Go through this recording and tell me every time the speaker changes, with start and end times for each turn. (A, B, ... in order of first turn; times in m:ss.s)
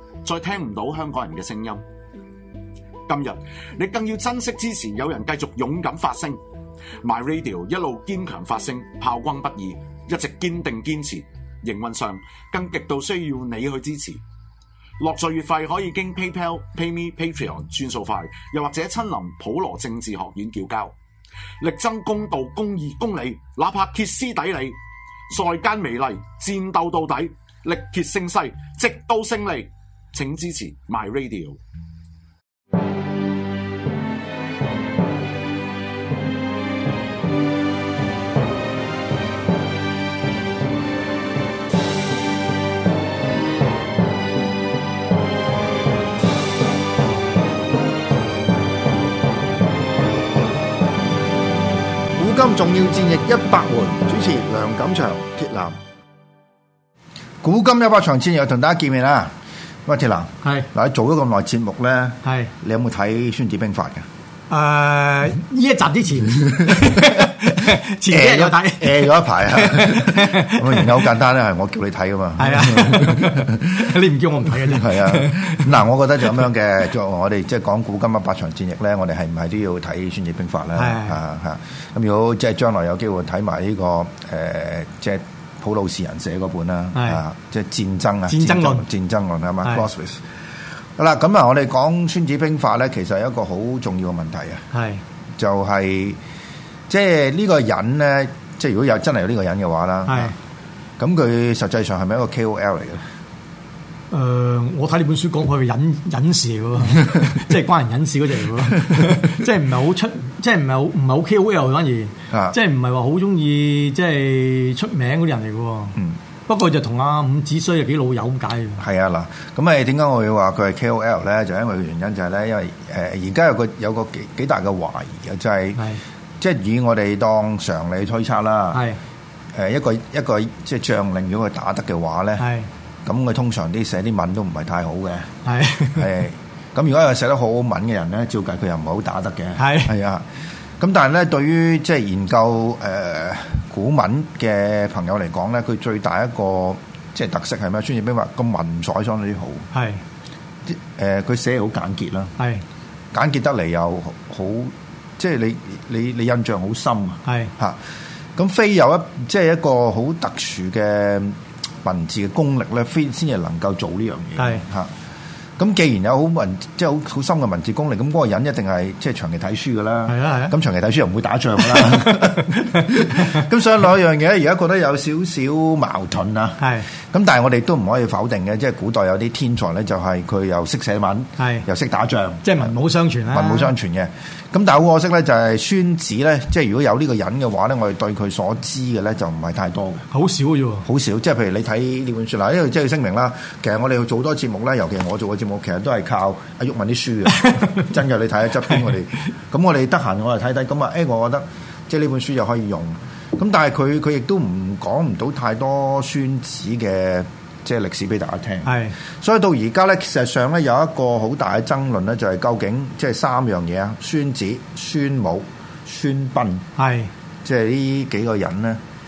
0:00.2-0:01.8 A
0:03.1-0:06.4 A
0:07.0-0:14.2 A
0:15.0-0:20.9 A
0:21.6-0:24.8 A
0:25.3-0:31.6 A
0:52.2-0:55.8 B
0:57.4-0:59.3 B
0:59.8-1:04.0 B
1:00.4-1:00.7 C
1:02.2-1:02.5 C
1:04.5-1:11.0 C
1:06.7-1:07.4 B
1:08.0-1:13.7 B
1:12.4-1:15.8 C
1:14.7-1:30.2 B
1:20.8-1:21.2 C
1:26.9-1:27.2 C
1:28.3-1:28.9 C
1:31.0-1:34.6 B
1:34.7-1:35.0 C
1:35.4-1:36.2 B
1:36.9-1:40.3 B
1:40.0-1:40.3 C
1:41.0-1:43.0 B
1:44.1-1:58.8 C
1:52.3-1:52.6 B
1:58.8-2:05.8 B
2:06.4-2:08.8 B
2:08.7-2:09.0 C
2:09.5-2:12.5 B
2:12.4-2:12.7 C
2:13.0-2:15.3 B
2:15.4-2:16.1 C
2:16.0-2:20.2 B
2:19.6-2:19.9 C
2:20.8-2:29.7 B
2:29.7-2:30.0 C
2:30.7-2:32.3 B
2:32.4-2:32.6 C
2:33.1-2:37.8 B
2:37.2-2:37.5 C
2:38.4-2:44.9 B
2:44.4-2:44.6 C
2:45.6-3:02.7 B
2:50.1-2:50.5 C
2:51.6-2:53.4 C
2:56.6-2:56.9 C
3:01.4-3:01.6 C
3:02.4-3:03.7 C
3:03.3-3:10.1 B
3:10.1-3:10.8 C
3:10.8-3:36.6 B
3:28.6-3:29.0 C
3:36.8-3:37.1 C
3:37.4-3:38.8 B